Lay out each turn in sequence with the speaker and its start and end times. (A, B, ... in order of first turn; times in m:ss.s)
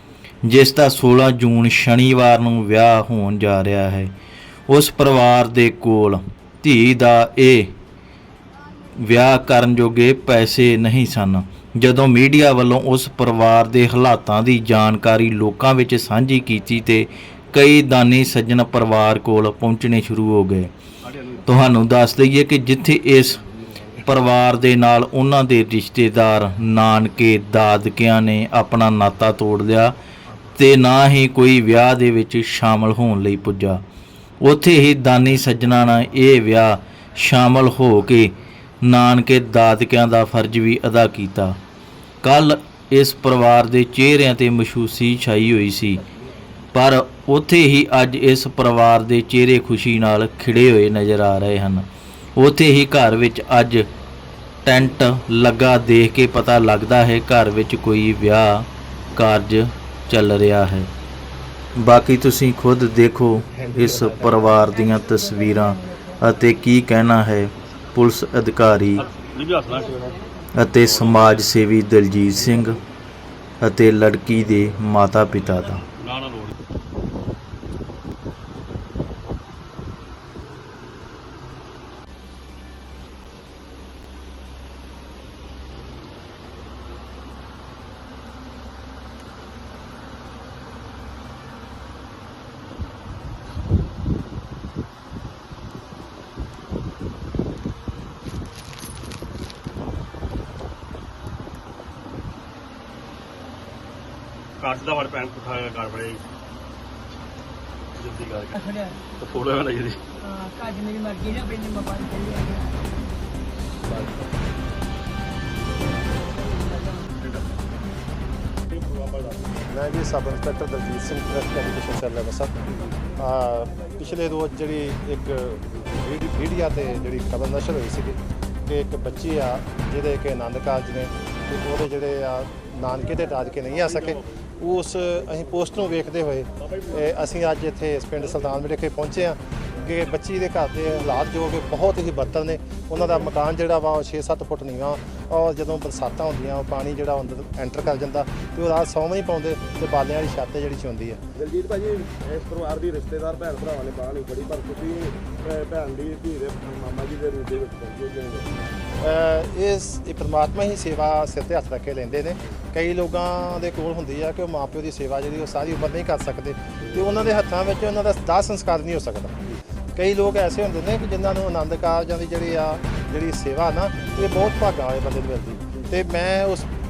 0:00.4-0:04.1 A
0:04.7-0:07.7 A
0:09.0-0:20.7 A
0:21.4-0:29.9 A
0:30.6-0:33.8 A
0:34.4-0:41.6 A
0:42.2-0:46.0 A
0:46.7-0:51.9 A
0:52.4-0:53.9 A
0:54.6-1:00.9 A
1:01.8-1:09.1 A
1:04.7-1:06.2 B
1:09.0-1:10.0 C
1:09.7-1:10.4 B
1:10.6-1:12.8 A
1:10.9-1:11.4 C
1:13.6-1:15.8 A
1:16.0-1:16.5 C
1:44.6-1:46.2 C
1:48.0-1:48.5 C
1:48.6-1:49.0 B
1:49.2-1:50.0 C
1:50.2-1:52.8 B
1:55.9-1:57.1 B
1:58.7-1:59.6 C
1:59.7-2:02.5 D
2:03.2-2:31.2 D
2:13.7-2:14.2 C
2:16.6-2:17.2 C
2:31.4-2:38.5 E
2:39.0-2:49.4 D
2:46.8-2:47.2 E
2:50.0-2:56.7 D